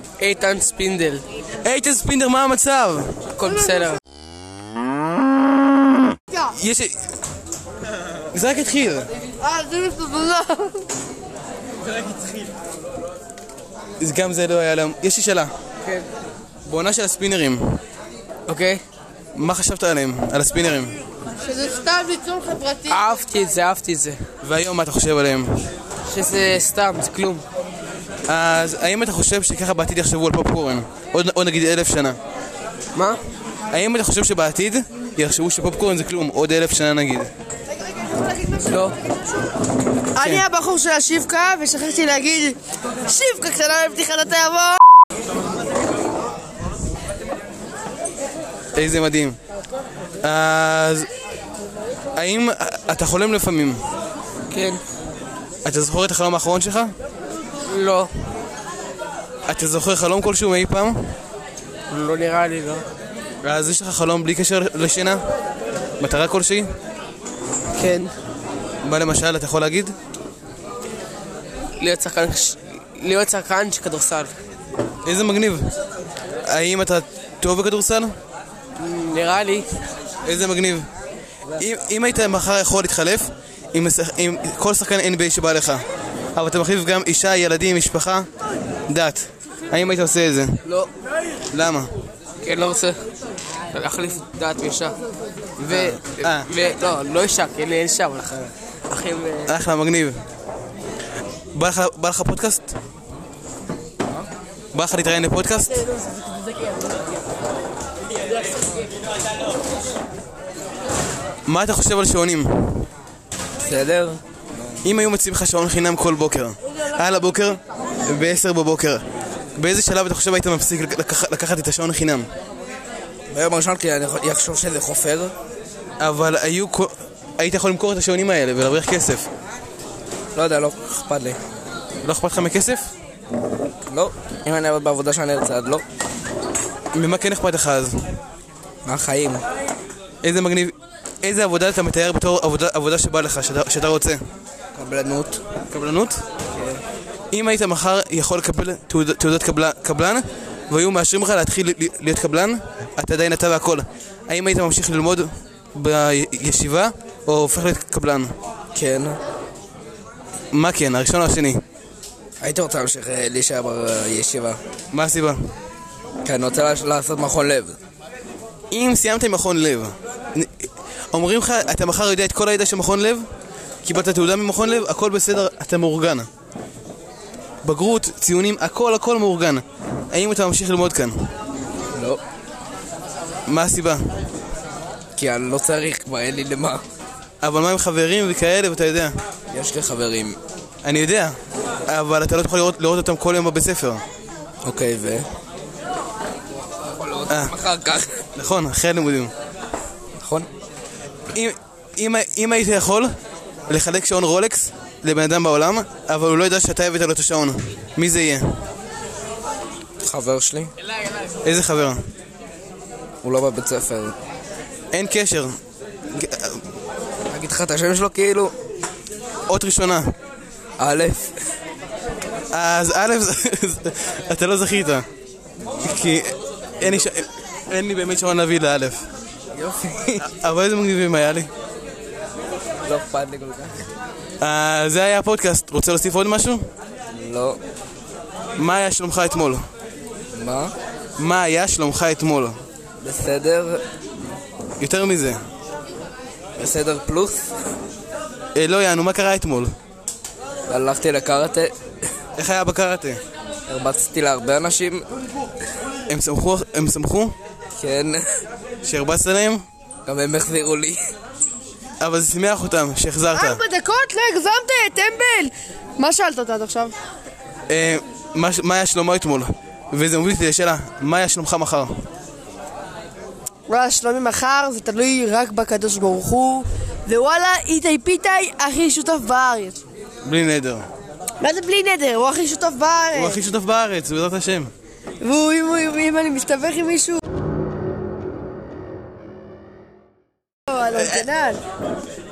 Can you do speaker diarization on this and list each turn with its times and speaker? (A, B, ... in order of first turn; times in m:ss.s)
0:00.2-0:01.2 A
0:01.6-0:03.2 B
0:03.4-0:04.0 A
0:06.4-0:07.1 B
0:08.3-0:09.1 B
0:09.4-0:10.8 C
0:14.0-0:15.5 B
0:16.7-0:17.8 B
0:18.5-0:18.8 A
0:19.4-0:21.0 B
0:21.4-0:23.0 C
0:22.9-0:24.2 A
0:24.4-0:25.6 B
0:26.1-0:27.4 A
0:28.3-0:32.2 B
0:33.0-0:33.2 A
0:33.7-0:37.3 B
0:38.6-0:39.0 A
0:40.1-0:44.8 C
0:40.2-0:40.4 B
0:48.7-0:49.4 B
0:50.2-0:51.1 B
0:52.2-0:53.8 B
0:55.6-0:56.9 B
0:57.7-0:58.1 A
0:59.5-1:01.2 B
1:01.9-1:02.8 A
1:03.4-1:05.2 B
1:06.0-1:06.7 B
1:07.8-1:08.1 A
1:08.8-1:10.0 B
1:11.8-1:14.4 A
1:15.0-1:15.7 B
1:16.4-1:18.2 B
1:18.8-1:19.7 A
1:20.2-1:20.9 B
1:21.6-1:25.8 B
1:26.4-1:28.3 B
1:28.9-1:30.6 B
1:31.5-1:31.9 B
1:32.4-1:33.0 A
1:33.7-1:35.0 A
1:35.6-1:39.5 A
1:35.7-1:36.5 B
1:39.5-1:40.2 B
1:41.5-1:42.7 B
1:44.7-1:45.8 B
1:51.5-1:52.9 B
1:53.6-1:54.8 D
1:54.8-1:59.0 B
1:59.6-2:02.3 B
2:03.3-2:05.4 D
2:06.0-2:09.3 B
2:10.3-2:11.4 D
2:12.0-2:12.9 B
2:13.9-2:15.8 D
2:16.9-2:18.0 B
2:18.8-2:19.5 D
2:20.2-2:24.2 B
2:24.8-2:25.4 D
2:25.7-2:26.2 B
2:26.6-2:26.8 D
2:27.3-2:38.4 B
2:38.7-2:39.2 D
2:40.5-2:41.6 B
2:42.4-2:44.6 D
2:44.9-2:45.4 B
2:46.2-2:47.8 D
2:48.7-2:53.3 B
2:53.8-2:56.3 B
2:57.6-3:01.3 B
3:01.9-3:02.2 D
3:03.5-3:04.3 B
3:05.2-3:06.8 D
3:07.4-3:09.2 B
3:09.5-3:10.4 D
3:10.8-3:14.0 B
3:14.6-3:15.3 D
3:16.9-3:18.2 D
3:17.3-3:17.6 B
3:18.4-3:19.3 B
3:20.2-3:20.5 D
3:21.3-3:23.1 B
3:23.7-3:28.6 B
3:30.0-3:30.7 D
3:31.4-3:32.0 B
3:33.2-3:34.2 D
3:34.9-3:35.6 B
3:36.1-3:36.6 B
3:37.3-3:38.6 D
3:39.5-3:40.1 B
3:40.8-3:41.3 D
3:42.5-3:45.1 B
3:45.8-3:49.0 B
3:49.6-3:50.2 D
3:50.2-3:51.5 B
3:52.8-3:53.9 D
3:54.4-3:56.7 B
3:57.1-3:57.6 D
3:58.6-3:59.6 B
4:00.3-4:00.8 D
4:01.2-4:02.6 B
4:03.0-4:03.8 D
4:04.8-4:05.4 B
4:06.6-4:07.5 D
4:08.6-4:09.7 B
4:10.7-4:11.8 D
4:12.4-4:13.2 B
4:13.7-4:15.1 D
4:16.1-4:17.4 B
4:17.8-4:18.4 D
4:18.8-4:19.6 B
4:20.0-4:21.1 D
4:22.0-4:23.6 B
4:23.3-4:27.0 C
4:27.7-4:31.9 B
4:33.7-4:39.8 C
4:40.2-4:40.9 B
4:41.4-4:43.4 C
4:43.1-4:44.7 B
4:45.2-4:47.2 C
4:50.7-4:51.6 C
4:50.9-4:51.3 B